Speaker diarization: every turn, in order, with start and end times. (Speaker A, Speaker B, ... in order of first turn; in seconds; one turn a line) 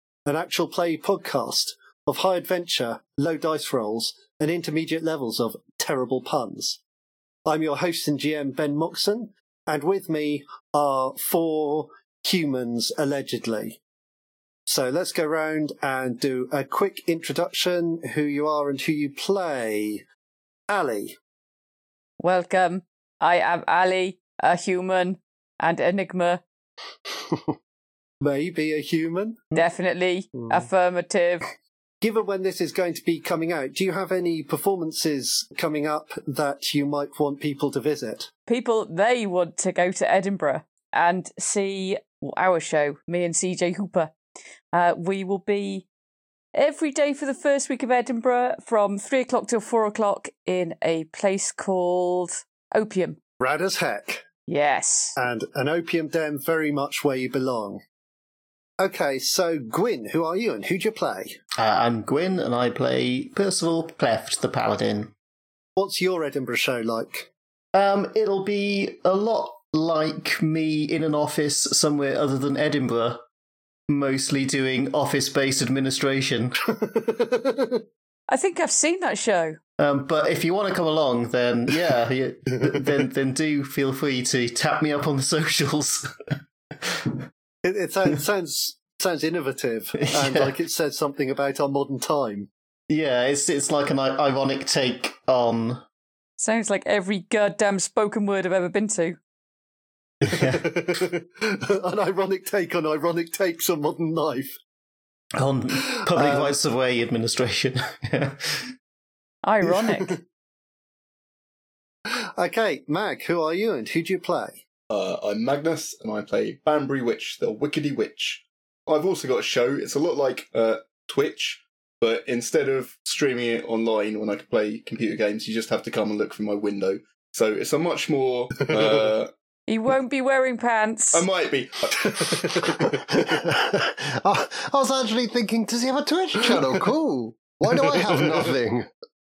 Speaker A: 0.2-6.8
Speaker A: 7.5-13.8
Speaker A: 14.7-20.0
Speaker A: 20.7-21.2
Speaker B: 22.2-26.4
Speaker A: 28.2-29.6
Speaker B: 29.5-31.5
Speaker A: 32.0-38.3
Speaker B: 38.5-44.1
Speaker B: 44.7-45.9
Speaker B: 46.5-53.2
Speaker A: 53.4-54.2
Speaker B: 54.5-55.2
Speaker A: 55.2-57.8
Speaker A: 58.8-61.4
Speaker C: 61.6-65.1
Speaker A: 65.8-67.3
Speaker C: 67.7-73.2
Speaker C: 73.9-76.6
Speaker A: 76.7-77.8
Speaker B: 78.3-79.6
Speaker C: 79.8-87.2
Speaker A: 87.6-92.5
Speaker C: 90.0-90.5
Speaker C: 92.9-95.8
Speaker B: 96.4-99.2
Speaker C: 100.2-100.7
Speaker A: 100.2-104.6
Speaker C: 105.3-108.7
Speaker A: 105.9-106.5
Speaker B: 109.4-110.2
Speaker A: 112.1-114.6
Speaker D: 114.9-129.3
Speaker B: 129.7-131.3
Speaker D: 131.1-132.7
Speaker A: 132.0-132.9
Speaker E: 133.1-138.9
Speaker A: 137.7-138.5